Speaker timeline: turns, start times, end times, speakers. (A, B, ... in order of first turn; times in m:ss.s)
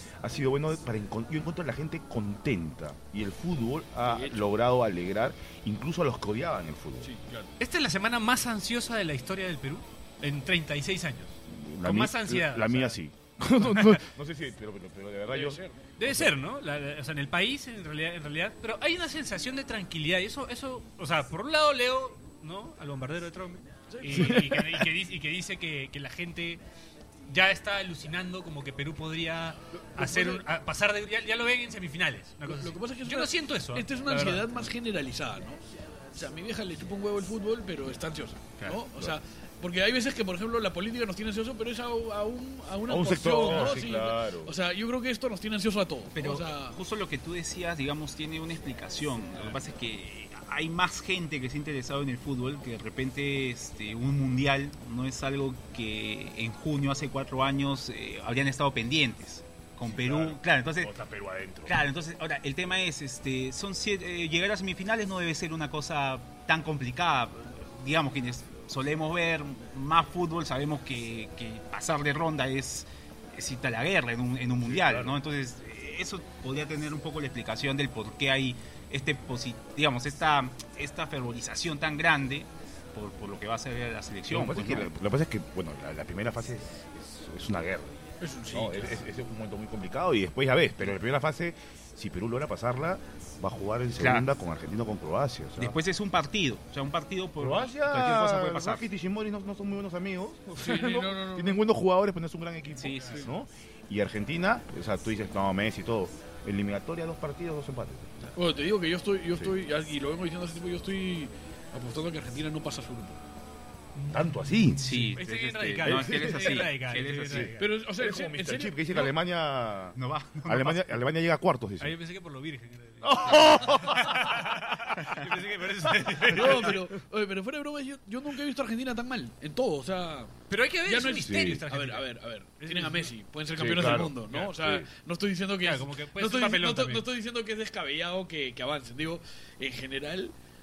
0:00.2-0:07.1 A
0:04.0-0:04.5 B
0:07.0-0:07.5 B
0:07.6-0:13.0 C
0:11.5-0:16.3 A
0:13.6-0:14.0 C
0:15.3-0:15.8 B
0:16.0-0:26.6 C
0:23.9-0:24.5 B
0:24.1-0:24.6 A
0:27.3-0:34.5 C
0:29.7-0:30.4 B
0:32.5-0:35.6 B
0:36.1-0:46.8 B
0:42.9-0:44.5 A
0:46.1-1:00.9 D
0:59.8-1:01.8 A
1:01.7-1:24.9 D
1:14.6-1:15.2 A
1:24.3-1:28.0 A
1:28.2-1:29.0 B
1:28.5-1:35.8 A
1:34.0-1:34.3 D
1:35.6-1:38.8 D
1:37.4-1:48.3 A
1:40.6-1:41.6 B
1:42.8-1:43.3 D
1:48.4-1:53.2 B
1:54.0-1:57.8 C
1:54.1-1:54.9 A
1:54.8-1:57.5 D
1:55.8-2:02.0 A
1:57.6-1:59.1 B
2:00.0-2:01.0 D
2:01.8-2:06.8 C
2:03.0-2:04.7 A
2:05.9-2:06.9 A
2:06.2-2:20.3 B
2:10.5-2:13.1 C
2:11.2-2:11.6 A
2:13.5-2:14.9 A
2:15.6-2:17.1 C